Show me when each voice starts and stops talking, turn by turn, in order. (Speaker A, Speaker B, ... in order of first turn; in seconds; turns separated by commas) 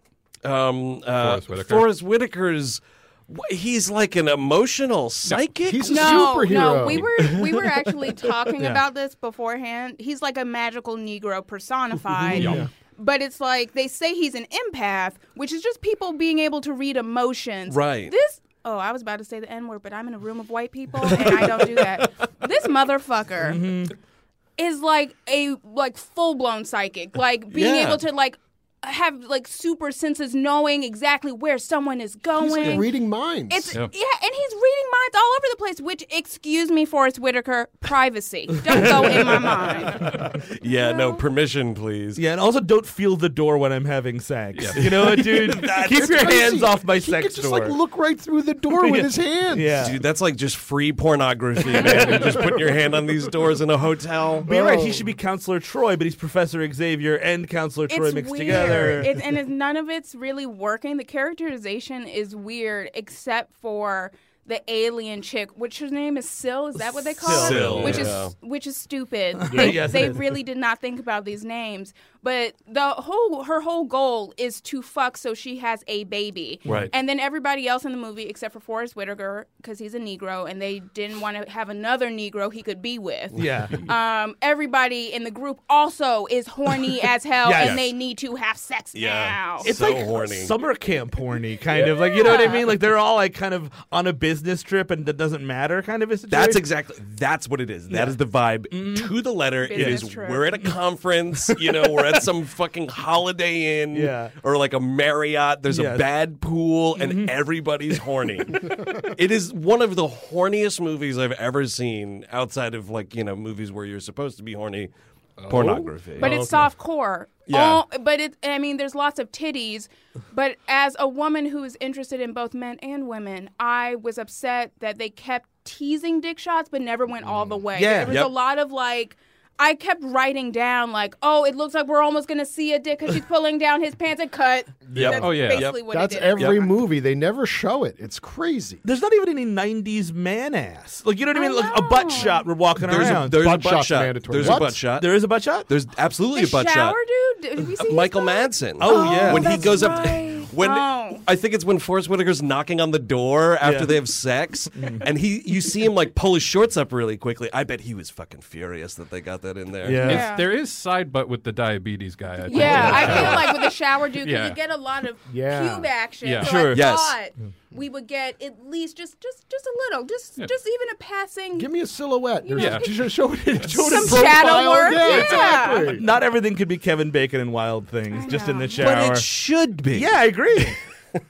Speaker A: 0.4-7.6, Speaker B: 1.2-1.9, Speaker C: 5.6-7.4, Speaker D: 5.9-23.7, Speaker B: 12.3-12.7, Speaker C: 12.4-12.7, Speaker A: 17.7-18.1, Speaker E: 21.1-21.4, Speaker E: 23.4-23.9, Speaker D: 24.6-32.9, Speaker A: 27.5-28.0, Speaker C: 32.4-33.8, Speaker D: 33.5-40.1, Speaker A: 38.7-42.2, Speaker D: 40.7-41.2, Speaker E: 42.2-47.8, Speaker B: 44.5-45.4, Speaker A: 44.8-45.7, Speaker C: 45.8-49.9, Speaker E: 48.8-50.0, Speaker A: 49.8-54.5, Speaker C: 51.8-52.4, Speaker C: 54.5-55.1, Speaker E: 54.5-59.2, Speaker D: 57.9-89.8, Speaker E: 66.8-68.2, Speaker A: 67.2-68.3, Speaker E: 69.4-70.3, Speaker A: 76.7-76.9, Speaker E: 83.3-83.8, Speaker E: 87.4-87.8, Speaker A: 88.9-90.5, Speaker E: 89.6-96.7, Speaker D: 91.8-92.7, Speaker A: 96.3-114.9, Speaker E: 97.9-98.2, Speaker E: 98.7-99.1, Speaker D: 99.6-100.5, Speaker E: 99.7-100.0, Speaker E: 101.5-102.2, Speaker E: 103.9-104.3, Speaker E: 105.7-106.1, Speaker E: 107.0-107.4, Speaker C: 115.4-115.9, Speaker A: 115.5-116.3, Speaker E: 116.2-116.7, Speaker D: 116.2-136.6, Speaker E: 117.5-117.8, Speaker E: 127.8-128.2, Speaker A: 128.1-128.3, Speaker C: 134.9-138.8, Speaker A: 134.9-135.8, Speaker B: 135.2-135.7, Speaker A: 136.3-136.7, Speaker E: 138.8-143.5, Speaker D: 141.3-142.5, Speaker A: 142.8-147.0, Speaker C: 143.0-144.8, Speaker E: 144.8-145.7, Speaker D: 146.3-151.2, Speaker A: 147.8-160.1, Speaker E: 148.8-149.9, Speaker E: 153.6-154.0, Speaker E: 154.8-155.1, Speaker E: 159.8-160.3, Speaker D: 160.0-160.5, Speaker B: 160.0-164.6, Speaker D: 162.5-171.7, Speaker C: 162.7-163.4, Speaker A: 162.7-163.3, Speaker E: 162.8-163.2, Speaker C: 165.3-165.9, Speaker B: 166.2-166.7, Speaker E: 166.4-166.8, Speaker A: 166.7-167.2, Speaker C: 171.6-176.1, Speaker D: 172.4-173.1, Speaker B: 172.6-172.9, Speaker D: 173.8-175.9, Speaker E: 174.9-179.3, Speaker D: 178.1-179.0, Speaker A: 178.8-180.8, Speaker E: 179.9-180.8